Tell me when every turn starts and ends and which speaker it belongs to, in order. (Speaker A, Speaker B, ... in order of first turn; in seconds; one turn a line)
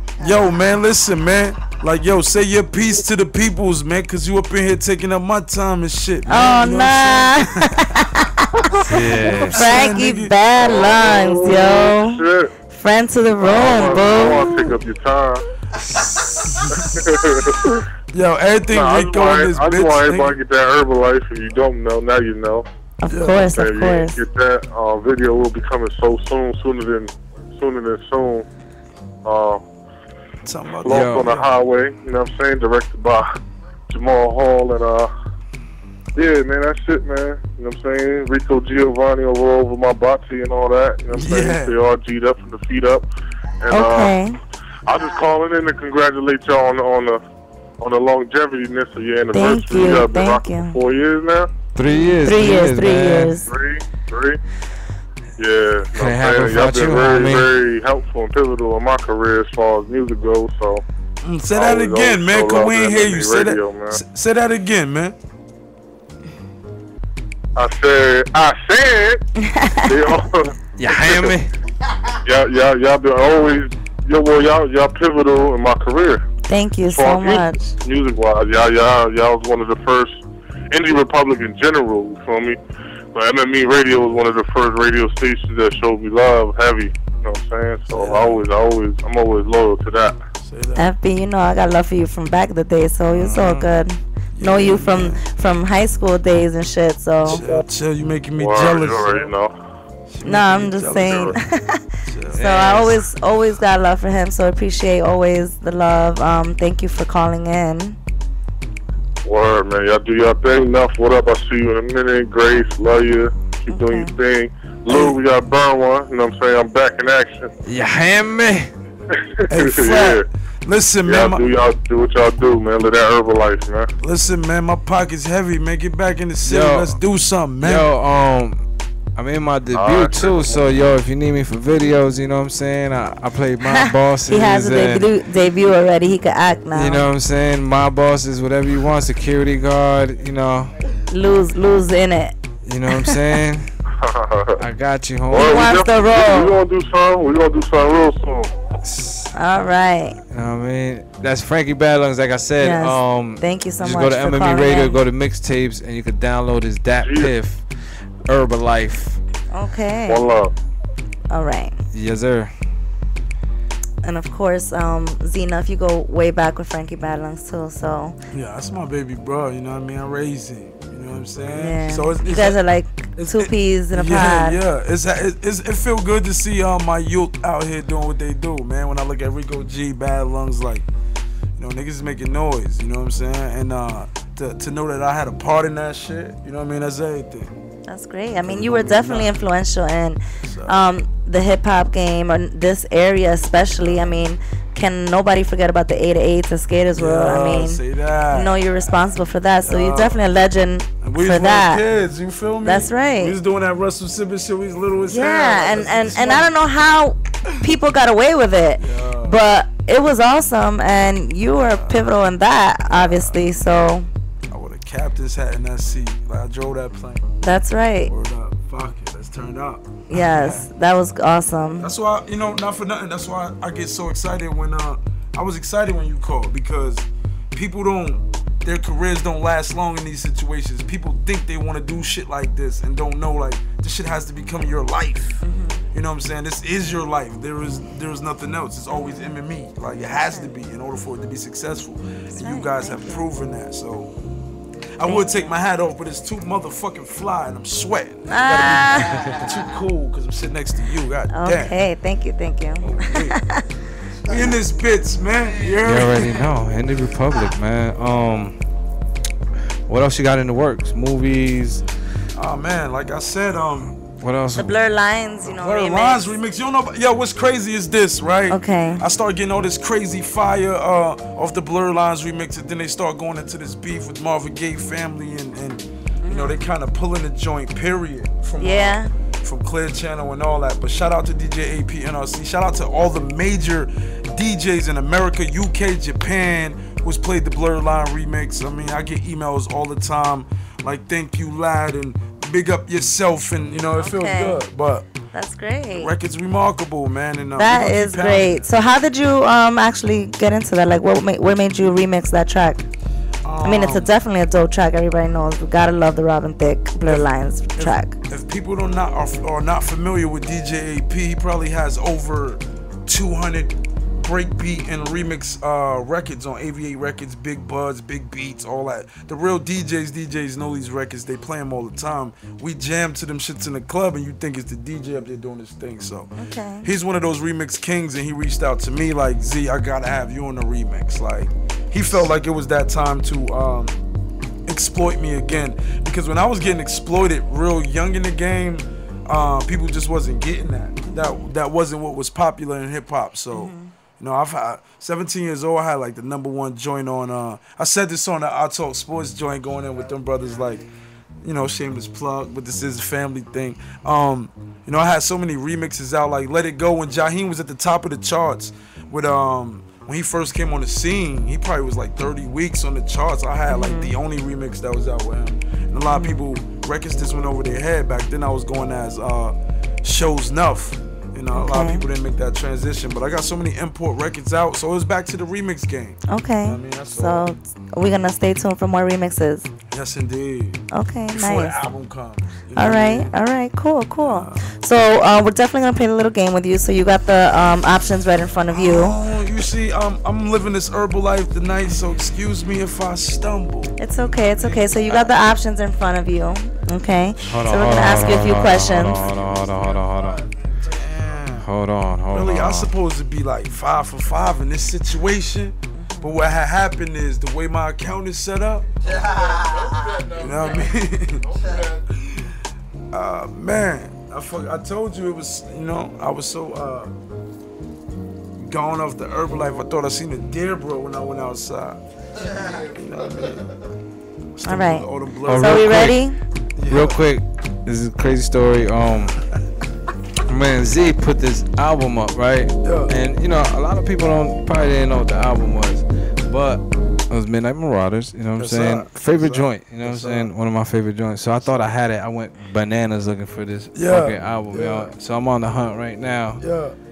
Speaker A: 0.2-0.5
Speaker B: 0.2-7.8
Speaker A: 6.3-14.7
Speaker B: 8.6-10.4
Speaker C: 8.9-9.8
Speaker D: 10.6-12.5
Speaker D: 13.4-15.4
Speaker C: 13.8-14.1
Speaker C: 15.9-16.6
Speaker B: 16.3-20.4
Speaker D: 16.8-17.6
Speaker D: 18.7-22.6
Speaker A: 23.0-24.2
Speaker B: 23.1-23.5
Speaker D: 23.4-28.4
Speaker D: 29.2-29.6
Speaker B: 30.4-31.4
Speaker D: 30.8-33.3
Speaker C: 30.9-31.4
Speaker D: 33.9-35.1
Speaker D: 36.1-43.1
Speaker B: 41.1-41.8
Speaker D: 43.6-44.2
Speaker A: 43.7-44.4
Speaker D: 44.8-47.2
Speaker D: 47.8-51.5
Speaker A: 49.3-50.8
Speaker C: 51.7-53.4
Speaker A: 52.1-53.5
Speaker D: 53.5-54.4
Speaker D: 55.4-60.8
Speaker C: 55.9-57.5
Speaker B: 61.2-65.2
Speaker D: 61.5-64.0
Speaker D: 67.5-69.2
Speaker A: 69.4-69.9
Speaker D: 69.8-71.3
Speaker C: 70.8-71.5
Speaker D: 72.2-76.2
Speaker A: 76.5-77.6
Speaker D: 76.9-82.6
Speaker D: 83.1-90.2
Speaker B: 87.9-88.4
Speaker B: 90.4-90.9
Speaker A: 90.8-97.4
Speaker C: 93.1-93.8
Speaker B: 94.3-95.2
Speaker B: 97.2-99.3
Speaker D: 98.4-99.5
Speaker B: 100.1-101.4
Speaker A: 100.2-101.8
Speaker D: 101.0-101.3
Speaker B: 102.0-102.5
Speaker C: 102.3-103.0
Speaker A: 102.3-108.0
Speaker D: 109.2-117.5
Speaker A: 113.7-114.1
Speaker B: 114.9-115.2
Speaker C: 117.6-118.7
Speaker D: 119.1-120.2
Speaker B: 119.5-121.4
Speaker D: 121.0-123.9
Speaker B: 124.0-127.9
Speaker C: 126.4-127.0
Speaker C: 127.6-128.6
Speaker C: 129.2-135.1
Speaker D: 129.7-130.8
Speaker A: 133.7-137.1
Speaker C: 136.7-140.8
Speaker A: 141.1-142.4
Speaker C: 142.6-143.7
Speaker A: 142.9-143.2
Speaker D: 144.0-144.6
Speaker C: 144.6-145.7
Speaker D: 145.3-148.5
Speaker A: 145.3-146.6
Speaker C: 148.8-149.3
Speaker A: 149.3-150.2
Speaker C: 150.3-159.2
Speaker A: 152.6-155.0
Speaker D: 157.0-157.3
Speaker A: 159.5-160.3
Speaker D: 160.1-160.5
Speaker A: 161.3-161.8
Speaker C: 161.9-162.5
Speaker A: 164.0-168.2
Speaker B: 168.3-172.6
Speaker A: 171.5-174.6
Speaker B: 173.2-180.8
Speaker B: 181.6-187.5
Speaker A: 187.9-197.8
Speaker B: 188.4-189.4
Speaker B: 190.4-190.8
Speaker B: 193.8-194.1
Speaker B: 196.9-198.6
Speaker A: 198.3-201.8
Speaker B: 199.6-200.2
Speaker B: 201.0-206.5
Speaker A: 202.6-203.3
Speaker A: 205.1-214.1
Speaker B: 208.8-209.4
Speaker B: 211.7-212.1
Speaker B: 212.9-213.7
Speaker B: 214.4-217.3
Speaker A: 217.4-218.1
Speaker B: 218.1-220.7
Speaker A: 220.1-221.9
Speaker B: 221.8-244.1
Speaker A: 235.4-235.8
Speaker A: 238.9-239.3
Speaker A: 242.3-243.2
Speaker B: 244.9-251.8
Speaker A: 245.0-245.5
Speaker A: 248.3-249.4
Speaker A: 251.3-253.6
Speaker B: 252.8-253.4
Speaker B: 254.2-256.4
Speaker C: 255.8-258.6
Speaker C: 259.9-261.8
Speaker B: 262.3-263.9
Speaker C: 264.1-264.7
Speaker A: 264.6-266.3
Speaker B: 265.4-295.1
Speaker A: 268.5-269.0
Speaker A: 276.2-276.6
Speaker A: 278.6-279.1
Speaker A: 294.0-294.6
Speaker A: 295.3-296.1
Speaker B: 295.9-298.7
Speaker A: 297.6-302.8
Speaker B: 303.4-304.1
Speaker A: 303.6-308.1
Speaker B: 307.1-326.3
Speaker A: 326.4-326.9
Speaker B: 326.8-334.0
Speaker B: 334.6-350.9
Speaker A: 343.5-343.9
Speaker B: 351.4-377.5
Speaker A: 363.7-364.1
Speaker A: 366.1-366.4
Speaker A: 371.5-372.0
Speaker A: 376.3-379.7
Speaker B: 379.9-383.3
Speaker A: 380.9-381.8
Speaker A: 382.8-389.2
Speaker B: 384.2-384.7
Speaker B: 388.7-395.3
Speaker A: 394.0-399.3
Speaker C: 397.5-400.4
Speaker B: 400.8-401.7
Speaker C: 401.6-402.9
Speaker B: 402.3-409.4
Speaker A: 405.9-406.3
Speaker B: 410.2-417.1
Speaker B: 418.5-422.0
Speaker B: 422.6-423.9
Speaker B: 424.6-426.0
Speaker A: 424.6-426.4
Speaker C: 425.5-426.2
Speaker B: 426.8-427.2
Speaker C: 426.9-429.4
Speaker C: 430.4-446.6
Speaker B: 432.8-433.2
Speaker B: 438.6-440.5
Speaker B: 443.9-445.1
Speaker B: 446.6-447.0